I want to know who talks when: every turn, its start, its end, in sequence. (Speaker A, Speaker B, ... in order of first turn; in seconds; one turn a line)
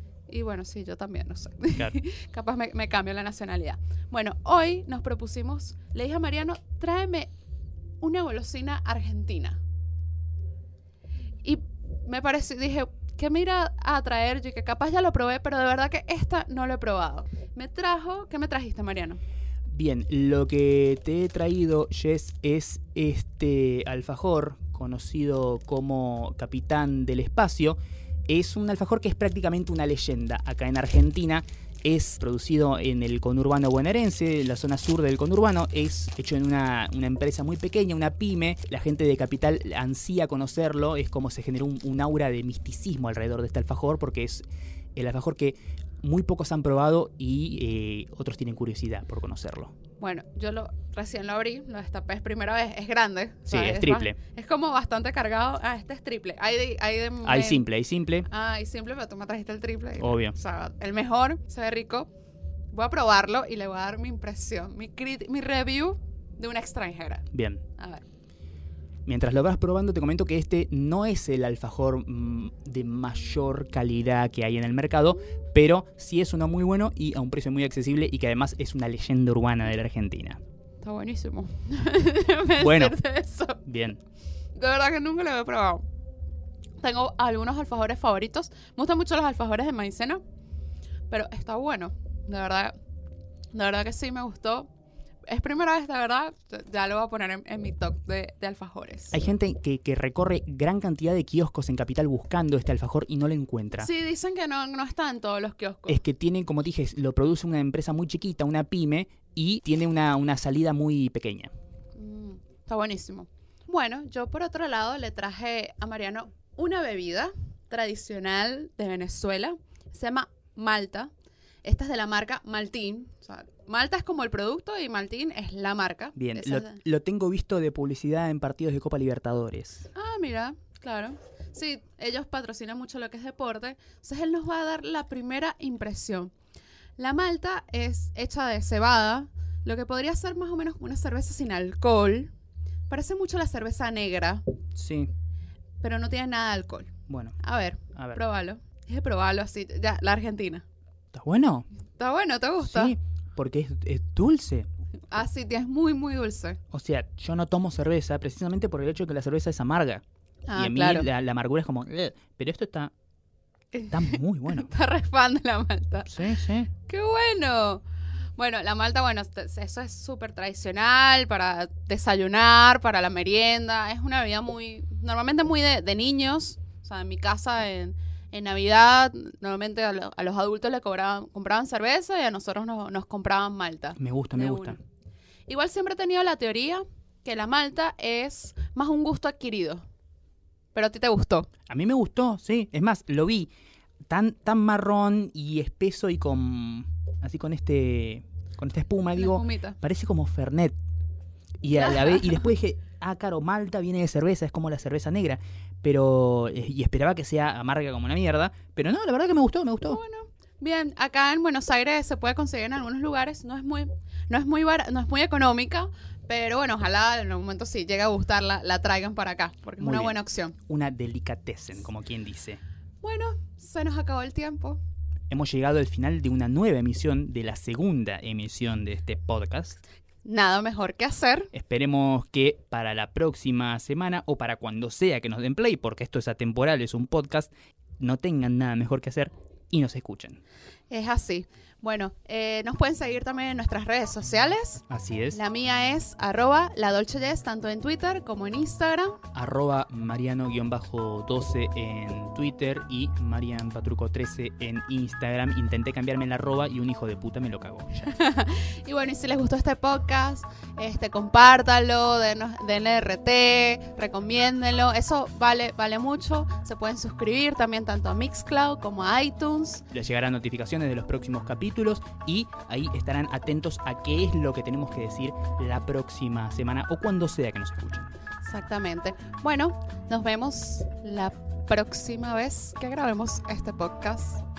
Speaker A: 0.3-7.3
Speaker A: 8.0-9.6
Speaker A: 11.4-19.2
Speaker B: 19.7-27.8
Speaker B: 28.3-44.4
Speaker B: 45.0-49.7
Speaker A: 50.0-57.6
Speaker B: 53.5-54.2
Speaker B: 57.2-58.3
Speaker A: 58.3-62.1
Speaker B: 60.0-60.4
Speaker A: 62.7-67.2
Speaker B: 67.3-67.6
Speaker A: 67.8-68.0
Speaker B: 69.1-80.4
Speaker A: 80.8-83.6
Speaker B: 82.6-83.0
Speaker B: 83.6-84.0
Speaker A: 84.5-85.9
Speaker A: 86.8-90.2
Speaker A: 91.1-92.7
Speaker A: 93.5-94.7
Speaker A: 95.2-99.2
Speaker B: 99.1-103.9
Speaker A: 103.8-106.0
Speaker B: 105.9-111.5
Speaker A: 112.0-121.1
Speaker A: 121.6-126.8
Speaker B: 126.2-129.9
Speaker A: 129.9-136.3
Speaker A: 137.0-142.3
Speaker A: 142.9-144.4
Speaker B: 144.8-145.1
Speaker A: 145.8-150.6
Speaker B: 147.1-147.4
Speaker B: 151.1-151.7
Speaker A: 152.0-152.9
Speaker B: 152.6-154.7
Speaker A: 155.1-156.6
Speaker B: 156.7-160.0
Speaker A: 160.5-161.1
Speaker B: 160.5-162.9
Speaker A: 163.7-166.1
Speaker B: 163.9-164.7
Speaker B: 166.1-166.7
Speaker A: 166.9-167.8
Speaker A: 168.3-184.8
Speaker B: 183.9-184.8
Speaker A: 185.5-189.8
Speaker A: 190.7-191.5
Speaker B: 191.7-193.5
Speaker B: 194.1-200.8
Speaker A: 199.2-199.8
Speaker B: 201.6-210.0
Speaker A: 201.8-202.4
Speaker A: 209.9-220.6
Speaker B: 219.8-222.6
Speaker A: 223.0-224.8
Speaker B: 225.3-229.8
Speaker A: 230.2-231.5
Speaker B: 231.5-240.4
Speaker A: 240.9-249.2
Speaker B: 244.9-245.4
Speaker B: 249.3-258.1
Speaker A: 258.0-269.8
Speaker B: 269.9-278.1
Speaker A: 278.4-284.4